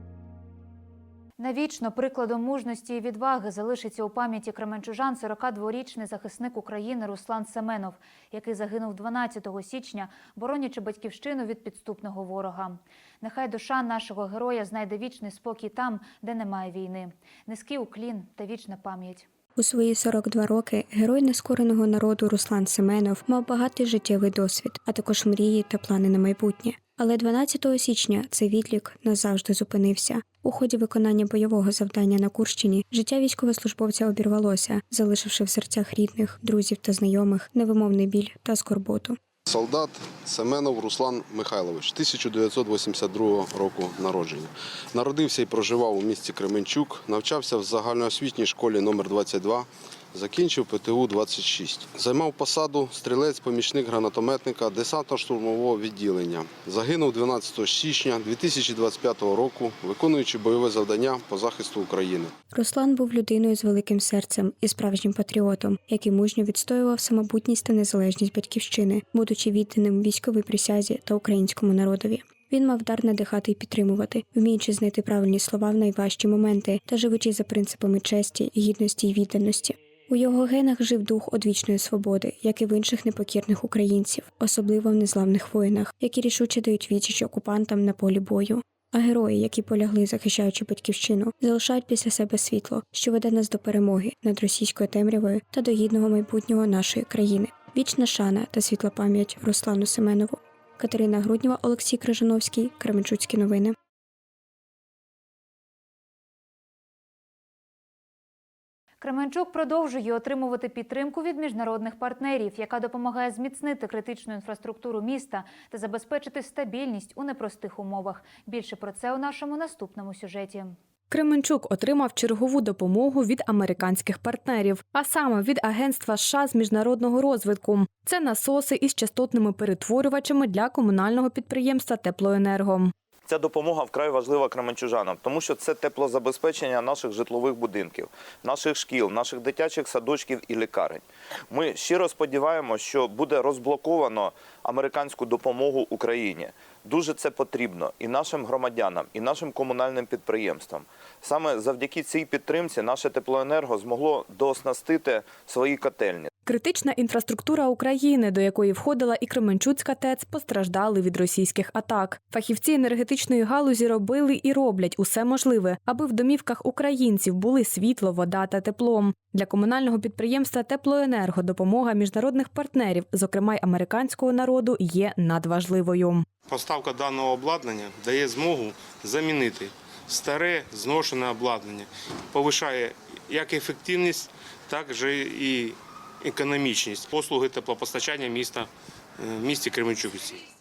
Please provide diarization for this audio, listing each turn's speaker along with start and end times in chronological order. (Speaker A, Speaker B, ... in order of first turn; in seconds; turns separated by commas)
Speaker A: 1.4-19.3, Speaker B: 19.6-39.2, Speaker C: 39.5-62.3, Speaker B: 62.5-103.8, Speaker A: 109.0-120.7, Speaker D: 121.1-132.9, Speaker E: 133.2-156.3, Speaker D: 156.4-176.2, Speaker F: 176.5-188.7, Speaker F: 189.2-190.4